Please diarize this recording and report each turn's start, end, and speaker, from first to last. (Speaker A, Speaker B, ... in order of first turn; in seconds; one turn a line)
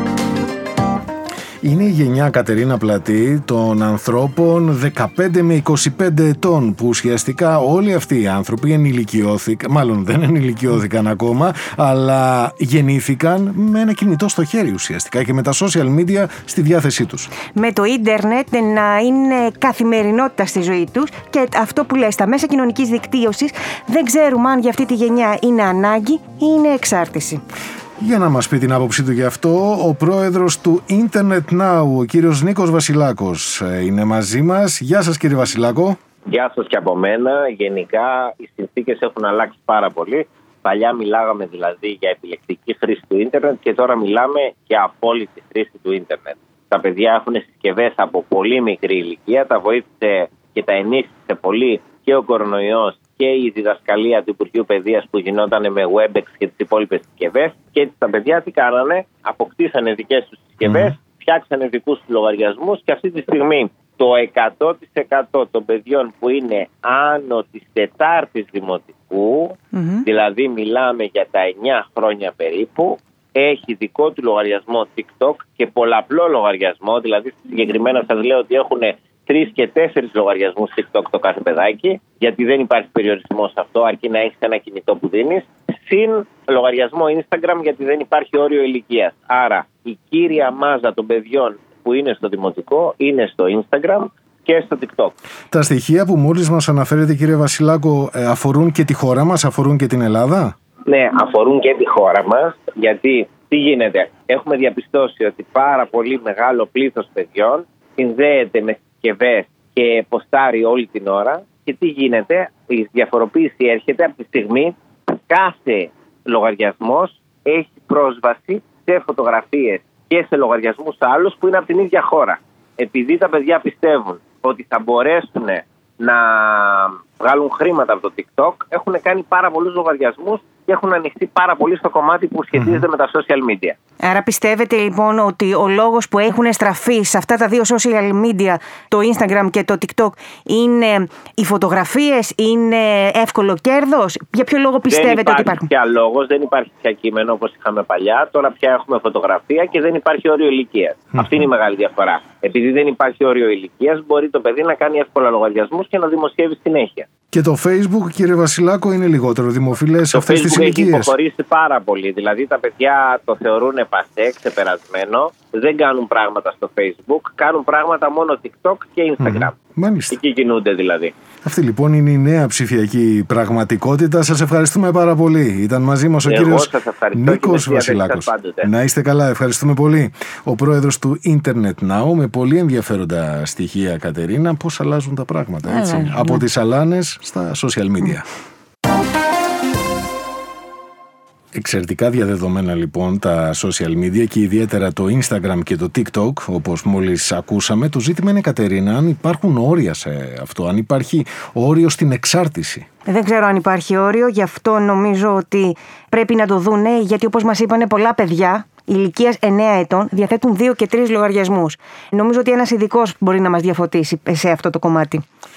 Speaker A: 1.6-17.3
Speaker B: 17.5-27.4
Speaker A: 28.0-36.0
Speaker C: 36.3-95.1
Speaker A: 60.6-60.9
Speaker B: 69.7-70.0
Speaker A: 95.5-100.5
Speaker C: 100.8-114.7
Speaker C: 115.3-133.8
Speaker A: 132.6-132.8
Speaker B: 134.0-145.7
Speaker C: 144.9-157.1
Speaker A: 157.3-161.1
Speaker C: 160.1-169.6
Speaker A: 169.2-170.2
Speaker C: 170.1-171.1
Speaker A: 171.4-188.2
Speaker C: 176.2-178.7
Speaker B: 185.7-186.4
Speaker A: 191.5-202.8
Speaker B: 203.1-215.2